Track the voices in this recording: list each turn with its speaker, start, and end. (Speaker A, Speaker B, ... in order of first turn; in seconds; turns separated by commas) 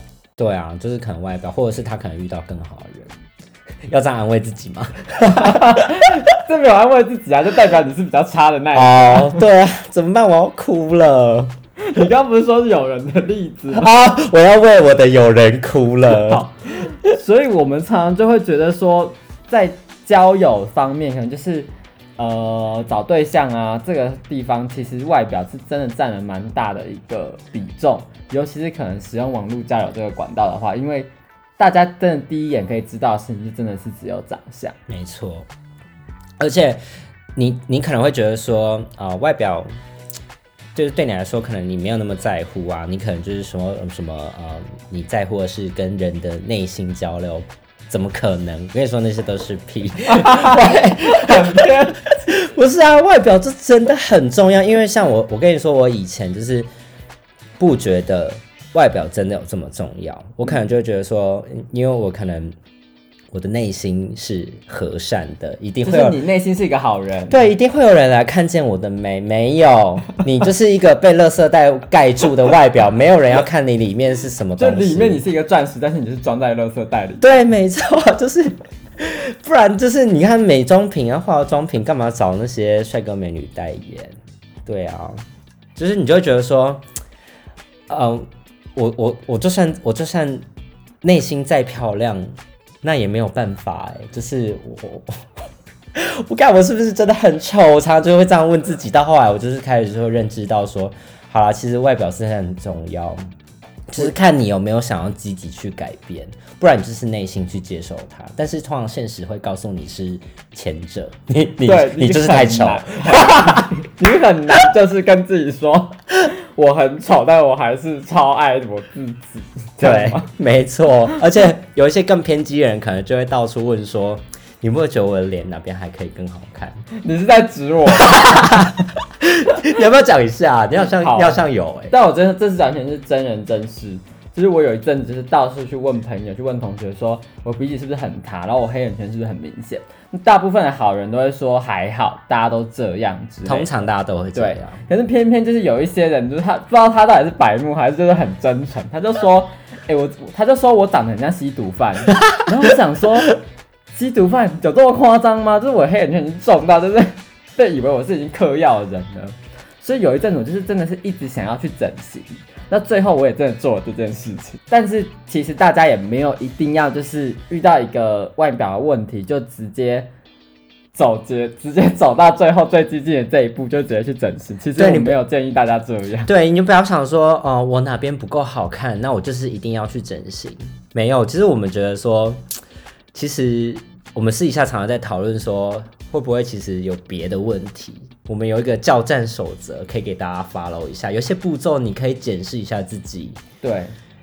Speaker A: 0.4-3.1, Speaker A: 3.9-6.3, Speaker B: 5.2-9.4, Speaker A: 8.7-11.5, Speaker B: 11.8-13.9, Speaker A: 13.7-16.5, Speaker B: 16.1-34.8, Speaker A: 34.9-35.5, Speaker A: 36.4-36.8, Speaker A: 37.4-39.7, Speaker A: 40.7-56.7, Speaker B: 50.1-52.0, Speaker A: 57.6-62.5, Speaker A: 63.3-66.2, Speaker B: 65.8-67.4, Speaker A: 67.3-75.2, Speaker B: 74.6-77.3, Speaker A: 77.2-85.2, Speaker A: 85.7-86.8, Speaker A: 87.9-90.4, Speaker A: 91.0-92.3, Speaker A: 92.8-95.2, Speaker A: 95.9-103.2, Speaker A: 103.9-113.7, Speaker B: 111.6-120.3, Speaker A: 119.8-126.8, Speaker B: 126.9-128.7, Speaker A: 127.9-131.9, Speaker B: 130.8-143.8, Speaker A: 143.4-144.8, Speaker B: 144.3-153.4, Speaker B: 153.9-170.1, Speaker B: 170.9-176.3, Speaker A: 174.8-175.2, Speaker A: 176.2-182.4, Speaker A: 183.1-193.4, Speaker B: 193.6-193.9